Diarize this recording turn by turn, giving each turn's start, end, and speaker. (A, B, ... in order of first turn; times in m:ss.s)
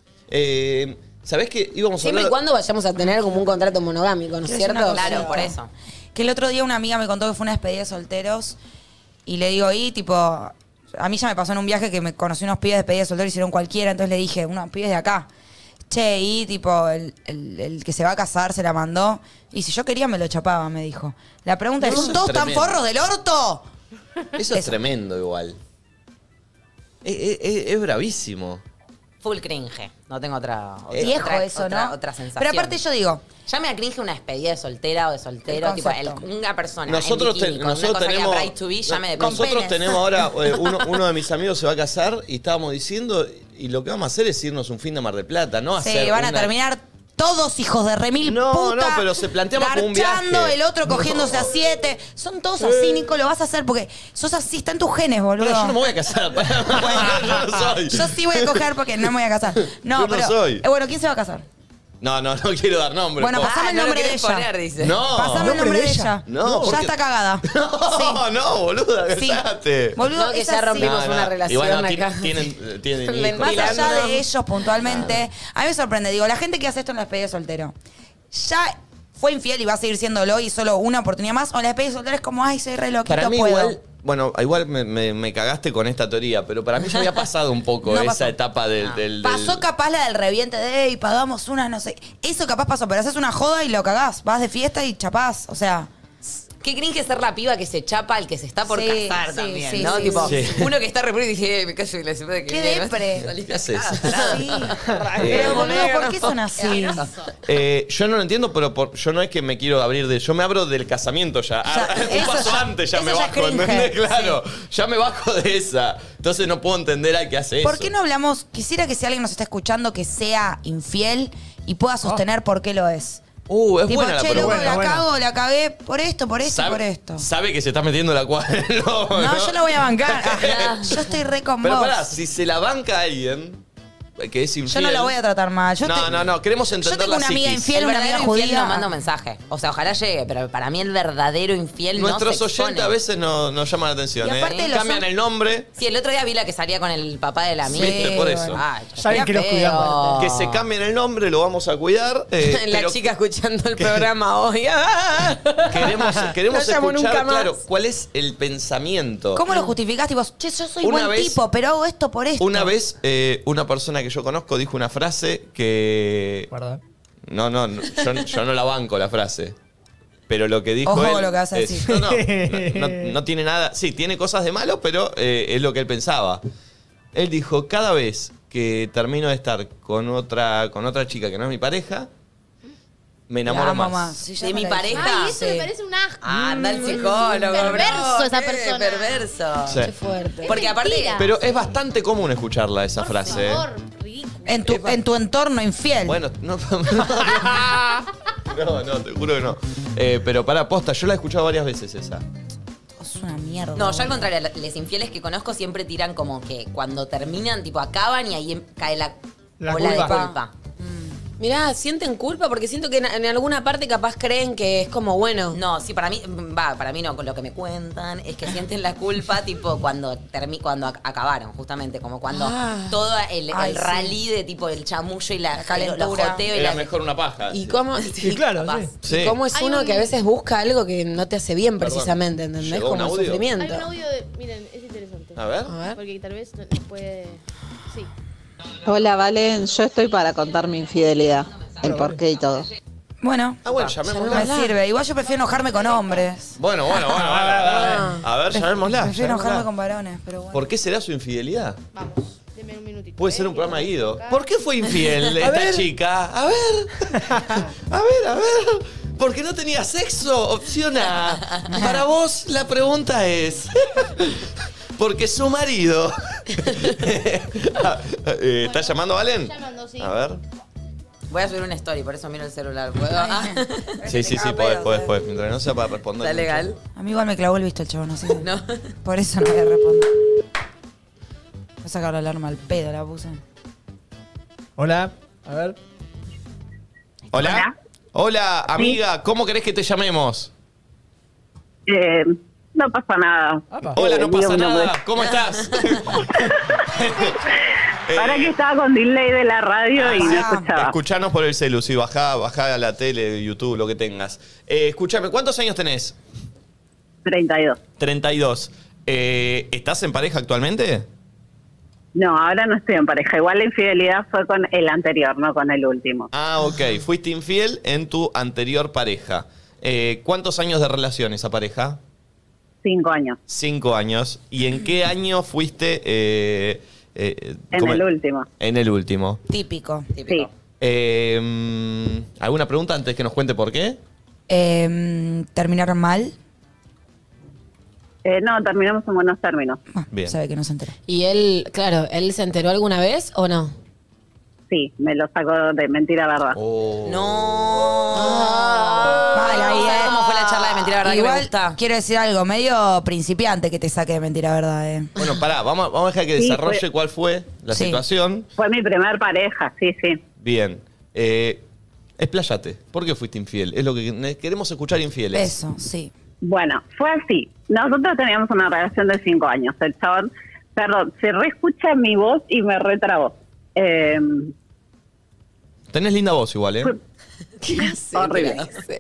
0:00.3-0:02.3 A
0:02.0-0:05.5 B
0:04.4-0:05.6 C
0:04.9-0:05.7 D
0:06.1-0:08.6 C
0:09.2-0:15.3 C
0:15.9-0:23.6 C
0:21.8-0:22.8 A
0:24.4-0:25.6 A
0:27.0-0:28.6 A
0:29.2-0:32.8 D
0:30.9-0:31.2 A
0:31.0-0:33.2 C
0:33.5-0:39.6 D
0:35.5-0:36.2 C
0:36.8-0:46.5 A
0:39.2-0:40.2 C
0:45.8-0:55.8 C
0:48.2-0:51.5 A
0:52.6-0:53.1 A
0:55.4-0:58.7 A
0:56.7-1:01.4 C
0:59.6-1:00.6 A
1:02.0-1:03.6 A
1:03.2-1:04.5 C
1:03.4-1:05.0 D
1:04.8-1:05.7 A
1:05.1-1:08.2 C
1:05.2-1:06.8 E
1:06.2-1:10.0 A
1:09.1-1:11.0 C
1:10.1-1:14.2 B
1:10.8-1:14.1 A
1:13.4-1:17.7 C
1:14.8-1:15.2 A
1:18.3-1:23.8 C
1:23.0-1:29.6 A
1:27.8-1:28.4 C
1:29.2-1:35.9 C
1:36.2-1:47.1 D
1:38.6-1:40.4 C
1:40.2-1:40.7 A
1:42.5-1:43.3 C
1:43.2-1:44.6 A
1:44.1-1:47.1 C
1:44.9-1:45.2 E
1:45.2-1:45.9 A
1:47.4-1:57.9 A
1:51.6-1:54.4 C
1:57.6-2:03.3 C
2:03.4-2:05.0 A
2:03.8-2:07.3 C
2:04.3-2:05.0 E
2:06.4-2:11.0 A
2:09.1-2:12.0 C
2:10.4-2:11.0 D
2:11.6-2:13.6 A
2:14.2-2:15.2 A
2:14.6-2:16.1 C
2:15.8-2:17.8 A
2:16.8-2:18.8 C
2:17.7-2:23.0 D
2:21.9-2:25.7 A
2:24.2-2:25.0 C
2:24.3-2:24.8 D
2:25.7-2:30.6 D
2:27.6-2:28.6 A
2:27.7-2:29.3 C
2:29.0-2:30.2 E
2:30.2-2:33.0 A
2:32.4-2:36.0 B
2:33.8-2:34.1 A
2:35.7-2:39.4 A
2:36.5-2:37.2 C
2:36.6-2:37.4 B
2:39.3-2:42.7 C
2:40.8-2:41.4 A
2:42.4-2:46.5 A
2:46.5-2:46.8 E
2:47.3-2:49.6 A
2:50.3-2:56.4 A
2:50.8-2:51.9 C
2:51.8-2:53.1 E
2:57.1-3:02.1 A
3:03.3-3:04.2 A
3:03.4-3:05.7 C
3:04.4-3:05.4 D
3:04.9-3:09.3 F
3:06.2-3:09.8 D
3:09.7-3:09.9 A
3:09.8-3:10.6 B
3:10.2-3:11.5 F
3:10.4-3:11.2 D
3:11.1-3:13.7 A
3:13.0-3:14.7 F
3:14.4-3:16.2 C
3:14.6-3:15.0 A
3:16.0-3:22.2 A
3:23.0-3:24.3 C
3:23.8-3:29.2 D
3:29.6-3:30.3 E
3:29.7-3:30.5 D
3:29.7-3:31.1 C
3:31.4-3:35.6 B
3:35.5-3:46.9 D
3:42.3-3:43.0 B
3:43.5-3:44.2 C
3:45.5-3:46.4 C
3:46.5-3:47.8 A
3:47.5-3:48.4 B
3:48.2-3:48.9 E
3:48.6-3:48.8 D
3:49.0-3:49.4 A
3:49.0-3:53.9 B
3:49.5-3:50.1 F
3:51.8-3:53.5 A
3:53.6-3:58.1 F
3:55.3-3:55.7 A
3:55.6-3:56.0 B
3:58.8-4:02.7 G
4:01.8-4:02.1 E
4:03.2-4:03.6 C
4:03.6-4:04.6 A
4:04.0-4:04.7 B
4:04.2-4:06.5 C
4:06.6-4:09.6 A
4:07.1-4:08.2 E
4:07.7-4:08.2 B
4:08.5-4:10.7 C
4:10.5-4:11.8 A
4:11.9-4:14.8 F
4:13.2-4:30.4 A
4:15.3-4:15.9 E
4:17.2-4:17.6 E
4:21.7-4:22.0 C
4:28.6-4:30.2 F
4:31.3-4:34.0 D
4:33.1-4:35.2 C
4:34.0-4:36.7 A
4:36.2-4:36.8 D
4:36.9-4:38.5 C
4:38.4-4:38.8 D
4:39.0-4:40.1 C
4:41.8-4:43.4 C
4:44.8-4:45.8 E
4:47.3-4:50.5 A
4:47.3-4:47.7 H
4:51.9-4:55.0 H
4:53.7-4:54.0 E
4:53.9-4:57.5 A
4:56.2-4:56.5 H
4:58.1-4:58.6 A
4:58.1-5:00.9 H
5:00.0-5:06.2 A
5:00.1-5:00.7 C
5:07.2-5:07.8 H
5:08.0-5:11.0 A
5:12.1-5:16.3 H
5:16.3-5:22.0 A
5:22.8-5:23.4 H
5:23.5-5:28.0 A
5:27.7-5:28.5 H
5:28.6-5:29.4 A
5:29.5-5:30.1 C
5:30.1-5:30.5 D
5:30.8-5:34.0 A
5:34.5-5:36.3 C
5:38.2-5:39.8 H
5:39.9-5:40.9 C
5:40.1-5:40.4 A
5:41.1-5:43.7 B
5:44.7-5:46.6 H
5:46.5-5:47.6 A
5:47.0-5:51.8 D
5:48.1-5:50.0 B
5:49.3-5:50.2 C
5:51.0-5:55.1 C
5:55.2-5:58.5 A
5:56.4-5:56.8 H
5:57.7-5:58.0 C
5:58.6-6:00.2 H
6:00.4-6:01.6 A
6:02.2-6:05.6 A
6:05.3-6:06.1 C
6:06.4-6:14.5 H
6:15.9-6:17.0 A
6:17.7-6:18.9 D
6:17.7-6:18.7 H